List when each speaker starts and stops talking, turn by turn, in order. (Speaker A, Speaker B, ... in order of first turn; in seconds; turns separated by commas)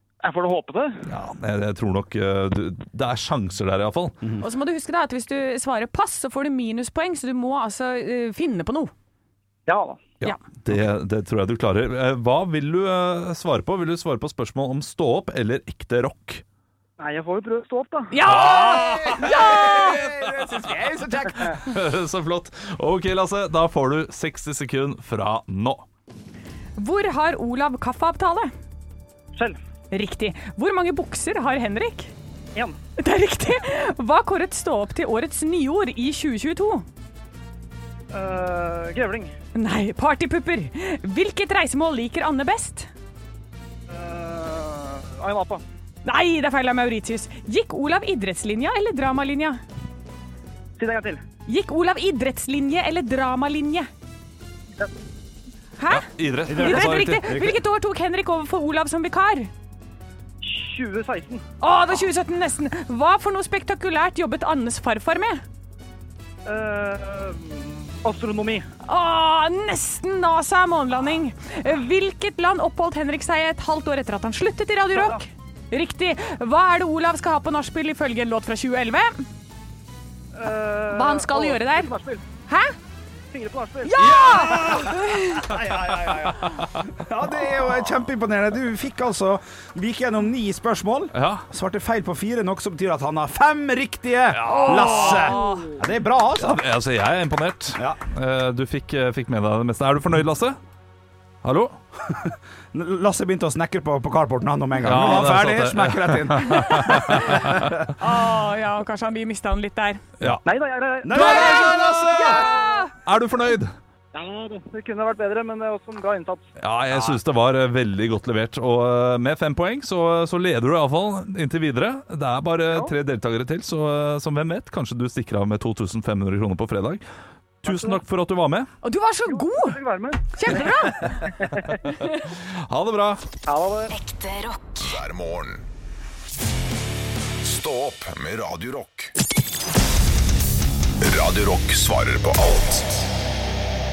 Speaker A: 0.2-1.1, Speaker B: 1.1-4.2, Speaker C: 4.4-8.9, Speaker A: 9.7-10.1, Speaker B: 10.2-16.4, Speaker A: 17.0-18.2, Speaker C: 18.1-20.0, Speaker D: 18.2-21.7, Speaker B: 18.3-20.7, Speaker B: 21.3-25.8, Speaker C: 26.8-28.5, Speaker C: 29.9-32.1, Speaker C: 33.0-36.9, Speaker A: 38.1-39.3, Speaker C: 39.5-42.9, Speaker A: 43.9-45.6, Speaker C: 46.0-49.6, Speaker A: 50.8-51.2, Speaker C: 51.5-53.9, Speaker C: 55.8-59.5, Speaker B: 55.9-57.5, Speaker D: 56.5-57.5, Speaker A: 60.4-61.4, Speaker C: 61.6-65.4, Speaker A: 66.5-68.7, Speaker C: 68.8-79.2, Speaker A: 74.9-75.2, Speaker A: 80.3-82.2, Speaker C: 80.9-81.9, Speaker C: 82.5-82.7, Speaker A: 83.3-84.1, Speaker C: 83.8-85.5, Speaker D: 84.0-96.6, Speaker B: 91.1-91.5, Speaker B: 94.3-94.8, Speaker C: 94.4-95.7, Speaker A: 95.2-95.7, Speaker B: 96.3-100.6, Speaker D: 97.7-98.0, Speaker B: 101.4-101.7, Speaker D: 102.0-107.9, Speaker B: 104.8-107.8, Speaker C: 106.8-107.3, Speaker C: 108.0-110.0, Speaker A: 110.4-111.6, Speaker D: 111.0-112.5, Speaker B: 111.1-113.7, Speaker C: 111.2-112.9, Speaker A: 114.1-116.5, Speaker B: 116.6-127.0, Speaker D: 116.9-117.2, Speaker B: 127.6-128.7, Speaker A: 127.7-128.0, Speaker C: 128.8-131.3, Speaker A: 129.3-131.9, Speaker B: 132.3-133.2, Speaker A: 133.5-134.0, Speaker E: 134.7-135.6, Speaker E: 137.4-139.1, Speaker E: 141.0-143.0